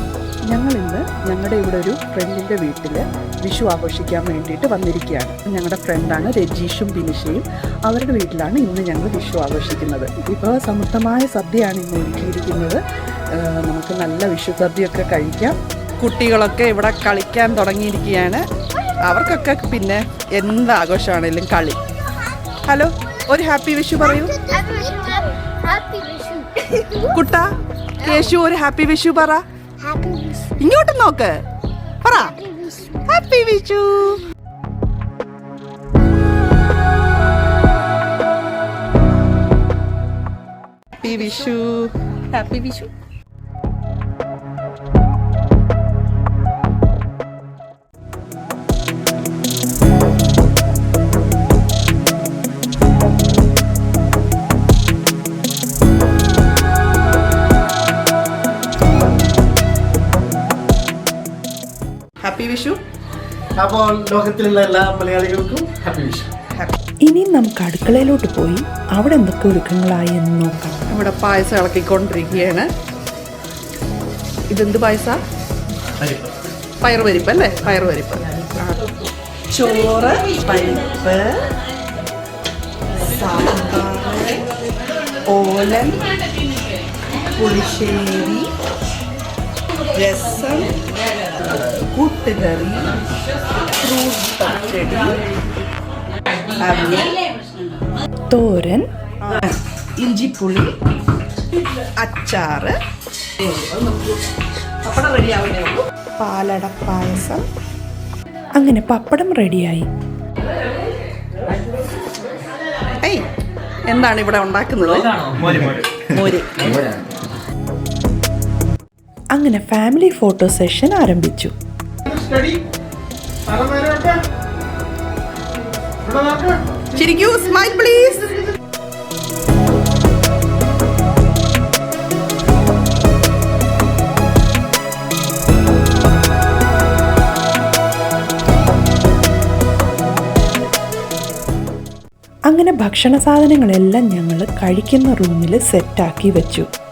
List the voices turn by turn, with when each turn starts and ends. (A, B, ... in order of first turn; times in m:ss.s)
0:00.5-0:12.8 A
0:13.4-0:18.4 A
0:19.0-0:21.8 A
0:22.7-0:24.7 A
0:24.5-0:26.5 B
0:26.7-0:27.5 A
0:28.0-0:29.4 A
0:29.8-0:30.5 B
0:30.5-0:31.4 A
0:32.0-0:34.2 A
0:41.0-0:42.9 A
1:02.2-1:02.8 A
1:03.6-1:06.3 C
1:07.1-1:10.8 D
1:10.9-1:12.7 A
1:14.5-1:15.2 A
1:16.8-1:18.8 A
1:19.5-1:21.4 A
1:23.0-1:24.4 A
1:25.3-1:26.0 A
1:27.3-1:28.5 A
1:29.9-1:30.7 A
1:31.4-1:32.9 A
1:33.6-1:35.4 A
1:36.6-1:37.2 A
1:38.3-1:38.9 D
1:39.2-1:40.7 A
1:41.8-1:42.8 A
1:43.4-1:44.2 A
1:44.8-1:45.9 A
1:46.2-1:47.4 D
1:48.6-1:49.9 D
1:53.9-1:56.8 A
1:59.4-2:01.5 D
2:02.1-2:02.6 C
2:03.5-2:04.2 C
2:06.0-2:06.6 C
2:06.9-2:08.5 A
2:22.5-2:26.7 D